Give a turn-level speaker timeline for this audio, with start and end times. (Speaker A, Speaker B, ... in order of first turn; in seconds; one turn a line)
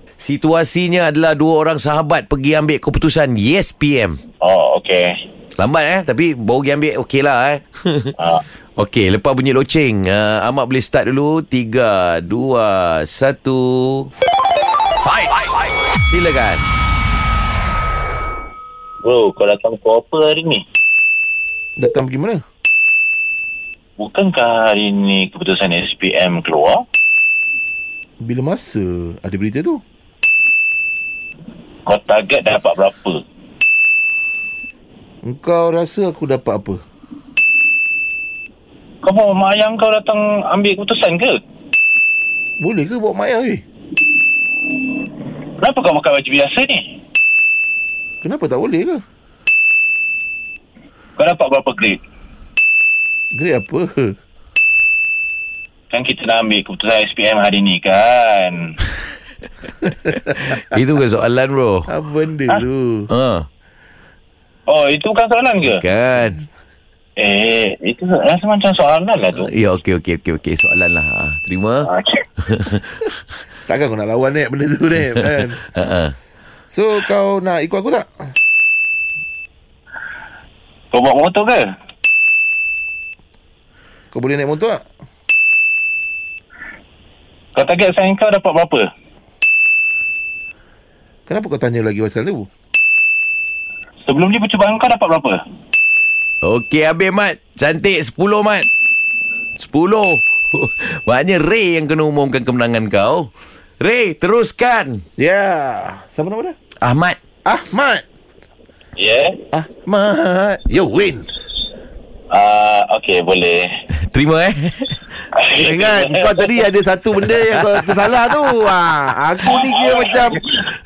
Speaker A: 0.2-4.2
Speaker B: 4.4-5.1
Speaker A: 5.6-8.1
Speaker B: 8.2-8.4
Speaker A: 8.8-14.1
Speaker A: 15.1-16.7
Speaker B: 19.0-20.6
Speaker C: 21.8-22.4
Speaker B: 24.0-26.8
Speaker C: 28.2-29.8
Speaker B: 31.9-33.2
Speaker C: 35.2-36.8
Speaker B: 39.0-41.4
Speaker C: 42.6-43.6
Speaker B: 45.6-46.9
Speaker C: 48.2-49.0
Speaker B: 51.2-52.0
Speaker C: 53.3-54.1
Speaker B: 55.9-58.8
Speaker A: 60.3-61.9
Speaker C: 61.9-63.1
Speaker A: 63.1-63.5
Speaker B: 64.7-65.8
Speaker A: 65.6-66.4
Speaker B: 67.2-69.5
Speaker A: 69.4-71.9
Speaker B: 71.8-72.2
Speaker A: 72.5-73.1
Speaker C: 73.7-75.6
Speaker A: 75.7-76.1
Speaker C: 76.7-78.3
Speaker B: 80.9-81.7
Speaker C: 84.1-84.8
Speaker B: 87.5-88.9
Speaker C: 91.3-92.5
Speaker B: 94.0-95.4
Speaker A: 96.4-98.7
Speaker A: 99.6-105.0
Speaker C: 105.2-106.5
Speaker A: 106.8-107.2
Speaker C: 107.4-108.0
Speaker B: 109.0-109.4
Speaker C: 109.5-111.3
Speaker B: 112.3-113.7
Speaker A: 114.0-115.1
Speaker B: 115.3-116.6
Speaker C: 115.6-120.4
Speaker B: 119.5-120.6